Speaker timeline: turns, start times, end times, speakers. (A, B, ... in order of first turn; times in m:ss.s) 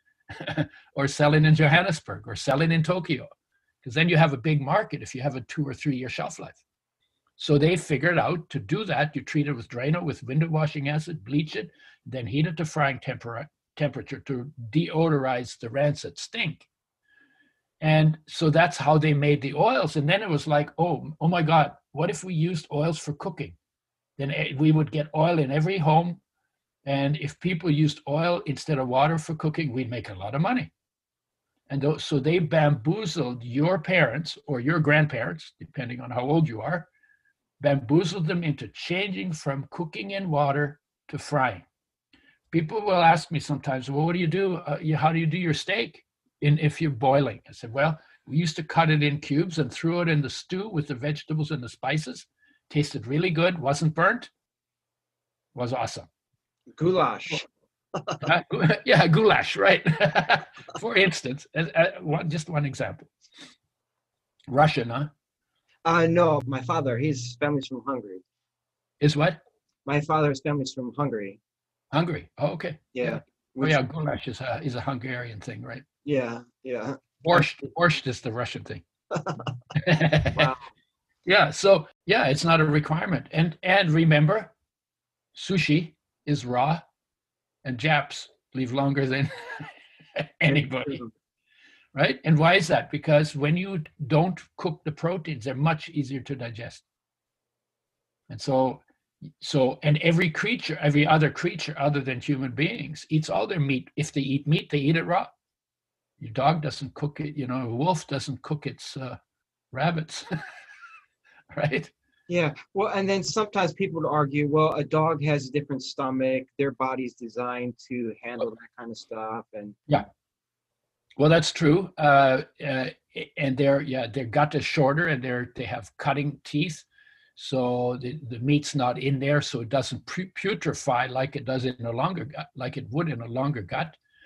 0:00.3-0:03.3 A
0:03.8-0:06.6 A
0:07.4-0:16.7 A
0:17.8-0:23.6 A
0:24.2-0:26.2 A
0:26.8-0:30.7 A
0:31.7-0:36.9 A
0:37.6-0:41.6 A
0:42.5-0:54.3 A
0:55.5-0:56.1 A
0:56.7-0:57.4 B
0:58.0-0:58.2 B
0:58.2-1:03.1 A
1:04.5-1:05.1 A
1:05.8-1:08.2 B
1:09.0-1:09.4 A
1:09.8-1:11.4 B
1:11.9-1:15.8 A
1:12.9-1:13.8 B
1:16.0-1:17.4 B
1:17.2-1:18.8 A
1:19.2-1:19.4 B
1:19.8-1:20.5 A
1:20.3-1:20.7 B
1:21.2-1:24.5 A
1:25.3-1:26.8 A
1:27.6-1:31.0 A
1:31.9-1:36.8 A
1:38.3-1:45.3 A
1:46.2-1:49.2 A
1:49.7-1:50.3 A
1:51.5-1:51.9 A
1:52.3-1:59.8 B
2:01.2-2:14.0 A